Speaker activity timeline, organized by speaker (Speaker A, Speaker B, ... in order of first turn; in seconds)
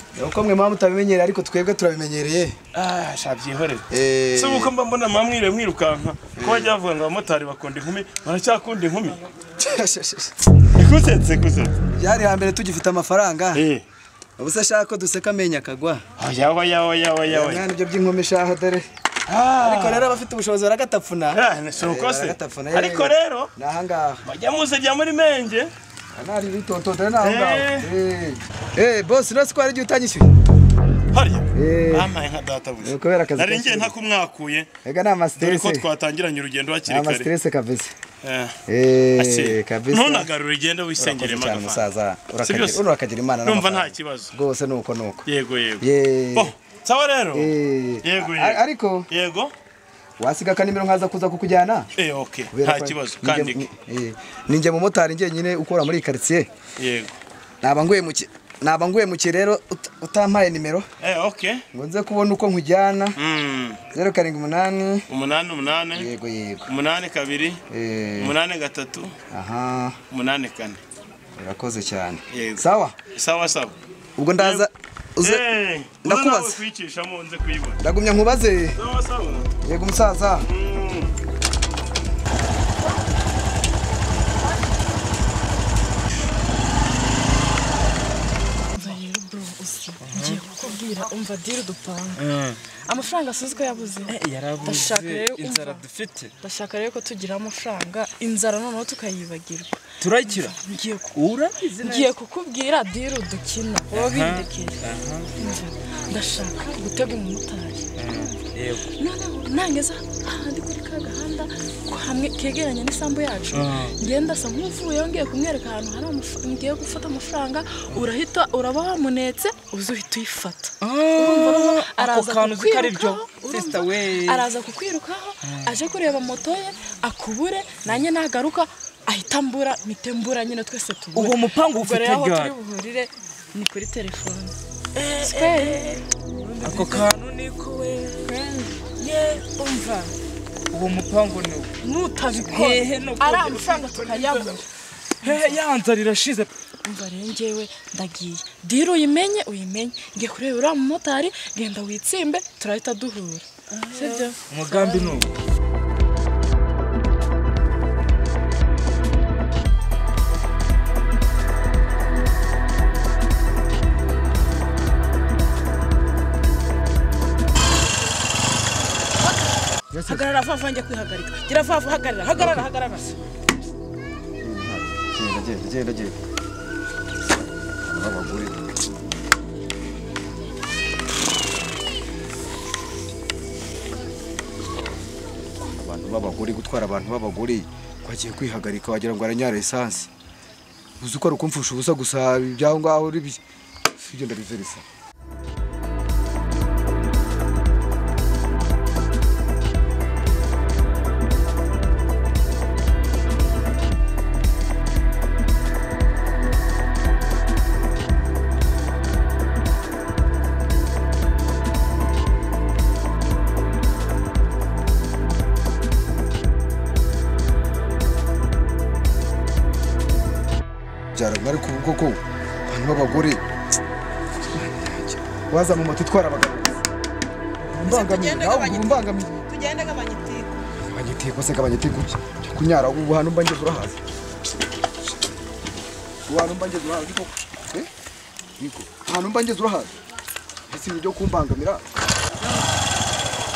Speaker A: 0.1-2.6, 3.9-4.7, 6.3-6.7, 9.6-10.3, 11.9-13.6, 14.4-16.0, 17.2-18.8, 19.6-24.2, 26.1-30.3, 31.5-32.2, 32.8-33.9, 34.8-35.9, 36.9-37.9, 38.7-40.3, 41.0-45.2, 45.8-46.5, 47.3-49.1, 50.2-51.9, 52.5-56.5, 57.6-60.9, 61.7-63.2, 63.9-65.0, 65.9-66.7, 67.7-68.3, 69.3-70.0, 71.4-73.0, 74.2-75.4, 76.0-76.6, 77.8-78.8, 79.6-80.5, 169.9-170.2, 172.3-172.7, 174.4-176.2, 177.8-178.6, 185.7-190.1, 191.0-193.4, 194.0-194.8, 221.1-223.4, 224.4-226.8, 227.6-229.3, 230.8-234.0, 236.3-237.9, 238.6-239.9, 240.7-241.8
Speaker B: 2.7-9.2, 10.7-11.7, 13.5-13.8, 16.2-17.7, 19.3-20.2, 21.3-23.5, 24.2-25.7, 27.2-27.9, 31.1-34.7, 35.4-37.3, 38.2-38.5, 39.2-41.9, 42.4-42.9, 43.4-44.3, 45.2-49.5, 52.0-53.7, 56.8-57.2, 61.0-61.6, 63.2-63.8, 65.1-66.1, 66.7-67.6, 68.2-69.1, 70.1-70.8, 72.3-73.7, 74.4-74.7, 75.2-77.8, 78.8-79.5, 80.4-81.2
Speaker C: 88.7-95.8, 96.4-101.2, 101.8-104.8, 105.3-134.6, 135.2-136.0, 136.7-137.1, 139.0-140.1, 141.8-144.7, 145.2-145.5, 146.8-155.2
Speaker D: 90.0-90.4, 92.2-92.6, 94.1-96.3, 100.0-100.5, 101.1-102.1, 103.9-105.3, 108.0-108.9, 113.5-113.9, 120.8-124.5, 125.4-125.8, 131.1-132.5, 136.4-138.4, 140.7-141.7, 142.3-144.5, 145.2-146.5, 154.5-155.3
Speaker E: 134.9-135.8, 138.2-138.8, 153.9-154.2, 169.1-173.0, 227.8-230.5